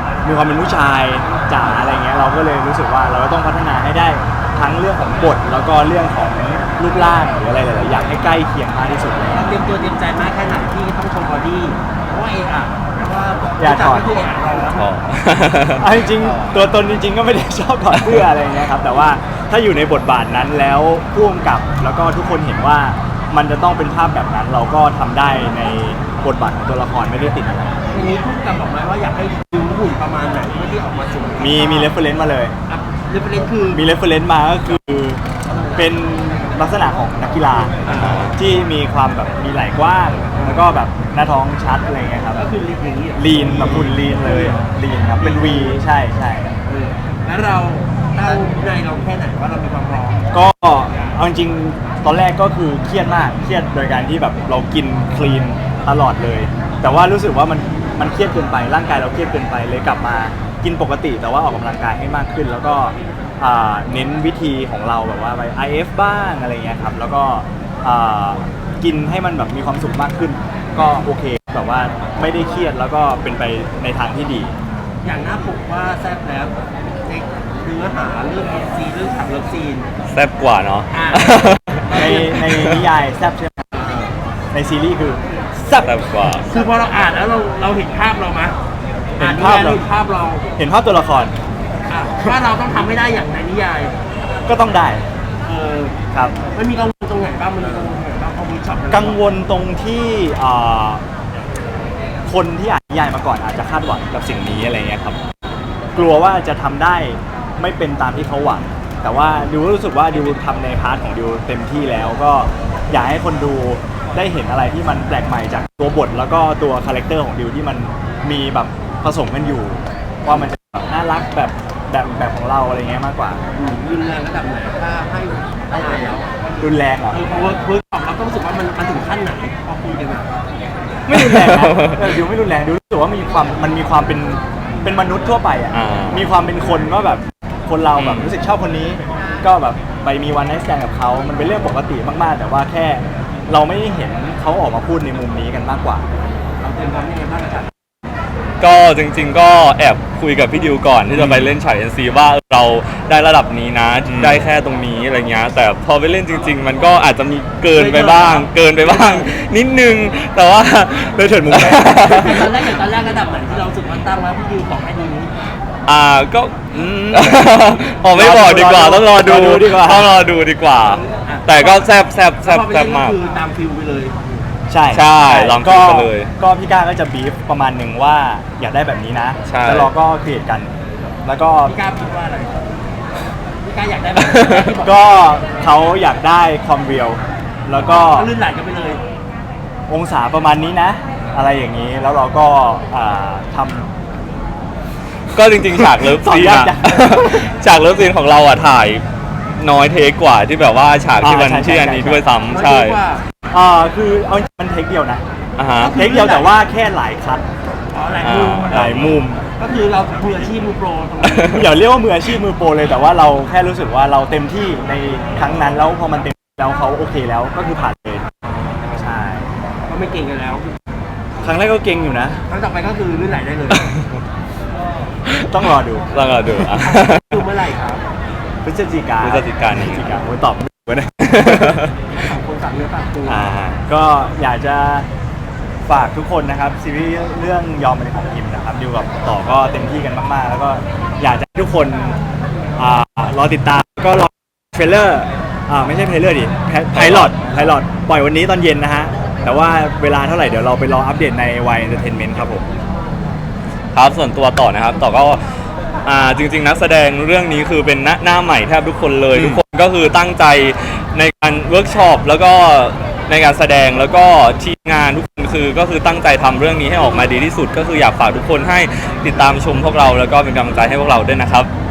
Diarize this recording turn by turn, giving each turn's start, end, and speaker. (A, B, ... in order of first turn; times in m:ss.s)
0:00.2-0:09.6 A
0:09.3-0:14.9 B
0:13.6-0:14.2 A
0:14.7-0:15.9 C
0:15.8-0:27.8 A
0:17.9-0:18.3 C
0:27.9-0:32.0 B
0:31.4-0:32.5 A
0:32.7-0:33.8 B
0:33.7-0:35.2 A
0:35.5-0:35.9 B
0:35.7-0:42.4 A
0:37.8-0:38.3 B
0:37.9-0:38.3 C
0:40.3-0:40.7 B
0:42.3-0:44.7 B
0:43.1-0:46.5 A
0:45.2-0:45.8 B
0:46.6-0:50.2 B
0:50.3-1:14.5 A
1:15.0-1:19.9 B
1:20.1-1:22.8 C
1:20.9-1:22.5 B
1:21.9-1:23.9 A
1:23.8-1:24.1 B
1:24.5-1:26.0 A
1:25.8-1:26.5 C
1:26.4-1:28.6 B
1:29.2-1:29.8 A
1:29.2-1:30.5 B
1:30.6-1:31.3 A
1:31.9-1:34.0 B
1:34.4-1:35.0 A
1:35.4-1:35.9 B
1:36.1-1:36.4 A
1:36.5-1:39.2 B
1:38.9-1:41.0 A
1:42.2-1:45.2 A
1:45.9-2:03.4 A
2:03.5-2:06.4 B
2:05.8-2:06.1 A
2:06.6-2:07.2 A
2:07.1-2:10.3 B
2:11.0-2:26.1 A
2:11.1-2:12.2 C
2:15.7-2:16.3 C
2:18.0-2:18.3 C
2:26.6-2:27.7 B
2:28.6-2:42.6 C
2:31.2-2:31.5 A
2:34.0-2:34.4 A
2:37.7-2:39.3 B
2:41.1-2:42.5 A
2:41.9-2:45.3 B
2:45.8-2:53.2 C
2:46.7-2:50.1 A
2:51.1-2:51.9 B
2:52.4-2:54.4 B
2:54.7-3:00.7 A
2:54.9-2:56.3 C
2:59.4-2:59.9 C
3:01.2-3:01.7 A
3:01.6-3:02.6 B
3:03.6-3:05.5 B
3:04.3-3:04.7 C
3:04.8-3:08.3 A
3:07.7-3:09.0 B
3:09.9-3:13.9 A
3:15.3-3:19.0 C
3:15.8-3:17.5 A
3:19.6-3:23.0 C
3:21.2-3:22.2 A
3:22.5-3:23.2 B
3:23.5-3:25.2 A
3:25.6-3:26.0 C
3:25.8-3:26.6 B
3:25.9-3:27.4 A
3:27.9-3:31.6 B
3:28.2-3:29.2 C
3:28.7-3:29.4 A
3:31.4-3:38.2 A
3:38.9-3:39.5 A
3:39.8-3:40.8 B
3:41.4-3:42.4 A
3:42.5-3:43.9 B
3:45.5-3:46.2 A
3:46.1-3:47.4 C
3:46.7-3:48.0 B
3:48.6-3:51.8 A
3:49.2-3:50.2 C
3:51.3-3:51.9 C
3:52.1-3:53.5 B
3:53.2-3:55.1 A
3:55.8-4:02.2 A
4:02.8-4:12.7 A
4:06.9-4:07.4 C
4:13.9-4:15.4 C
4:16.0-4:31.7 C
4:19.3-4:19.6 A